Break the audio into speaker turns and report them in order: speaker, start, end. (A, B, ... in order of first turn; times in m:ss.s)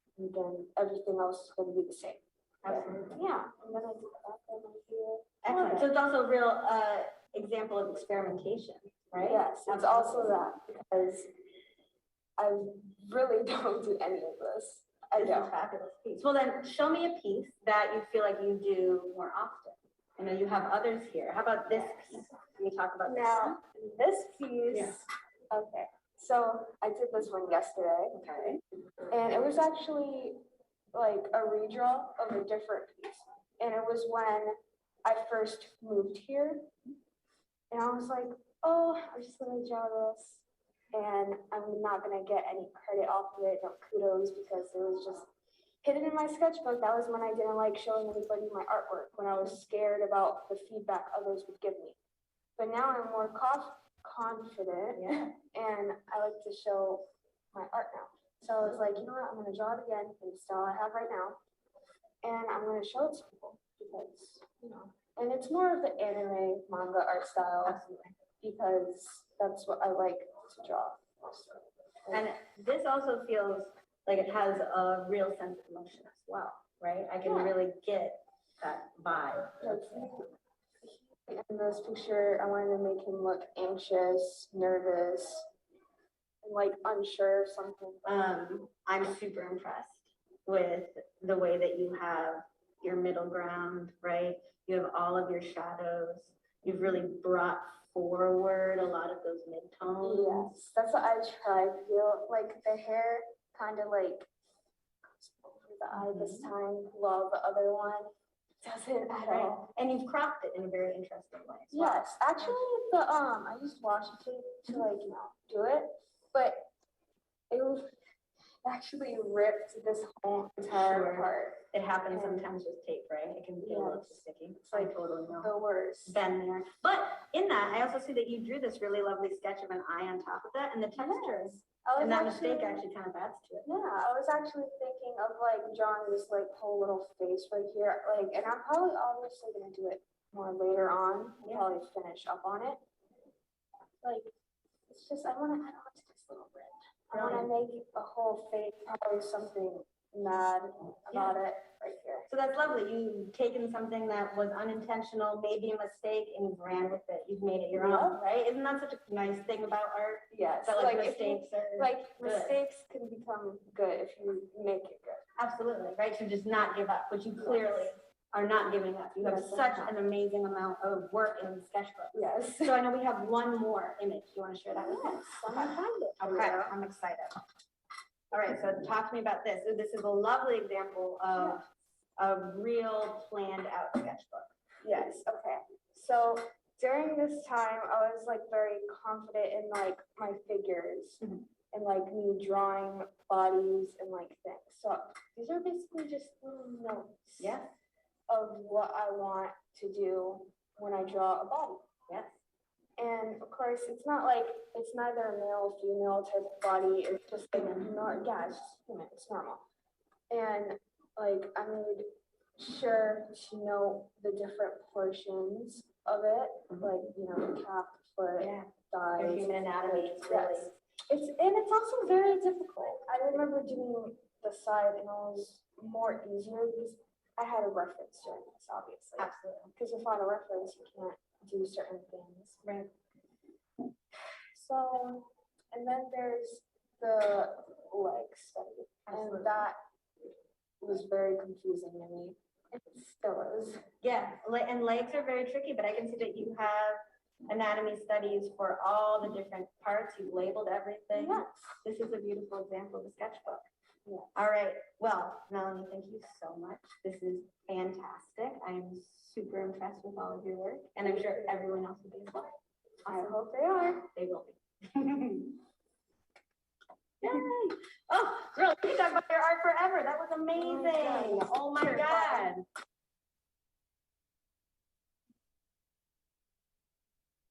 0:00.2-0:05.9 A
0:02.6-0:03.2 B
0:05.4-0:10.4 B
0:09.2-0:11.3 A
0:12.4-0:15.5 A
0:15.2-0:23.6 B
0:23.0-0:28.2 A
0:28.1-0:28.6 B
0:29.1-0:30.4 A
0:30.9-0:36.7 A
0:37.7-0:45.3 A
0:45.8-0:52.0 A
0:52.6-1:01.4 A
0:54.9-0:55.3 B
1:02.2-1:07.8 A
1:07.6-1:08.1 B
1:08.4-1:12.3 A
1:12.1-1:20.1 B
1:17.2-1:17.5 A
1:19.6-1:20.3 A
1:20.8-1:25.4 A
1:26.4-1:28.4 A
1:28.0-1:40.5 B
1:40.0-1:44.3 A
1:45.2-1:48.1 A
1:45.9-1:46.5 B
1:48.6-1:49.7 A
1:49.3-1:52.5 B
1:51.7-1:56.7 A
1:57.5-1:57.9 A
1:58.6-2:01.6 A
2:00.7-2:05.5 B
2:02.1-2:02.5 A
2:03.6-2:06.2 A
2:06.0-2:13.7 B
2:11.0-2:12.8 A
2:13.6-2:22.8 A
2:21.4-2:21.7 B
2:24.0-2:24.3 A
2:24.9-2:32.3 A
2:27.1-2:27.5 B
2:31.1-2:31.4 B
2:32.3-2:42.6 B
2:37.7-2:38.2 A
2:40.3-2:45.2 A
2:45.4-2:57.4 B
2:47.4-2:47.9 A
2:49.2-2:50.0 A
2:52.1-2:52.8 A
2:54.7-2:56.7 A
2:58.3-3:01.6 B
3:02.2-3:04.5 B
3:04.8-3:11.2 A
3:11.7-3:17.6 A
3:17.4-3:17.7 B
3:18.3-3:21.8 A
3:22.1-3:22.4 B
3:23.0-3:29.6 A
3:30.3-3:32.0 A
3:32.6-3:52.6 A
3:38.4-3:40.7 B
3:49.2-3:49.7 B
3:52.6-3:52.9 B
3:54.5-3:59.8 A
3:59.1-3:59.7 B
4:00.8-4:03.8 A
4:04.0-4:13.6 B
4:11.1-4:11.8 A
4:14.0-4:14.4 A
4:14.3-4:25.6 B
4:21.1-4:21.4 A
4:23.0-4:24.0 A
4:27.2-4:32.6 B
4:30.5-4:32.5 A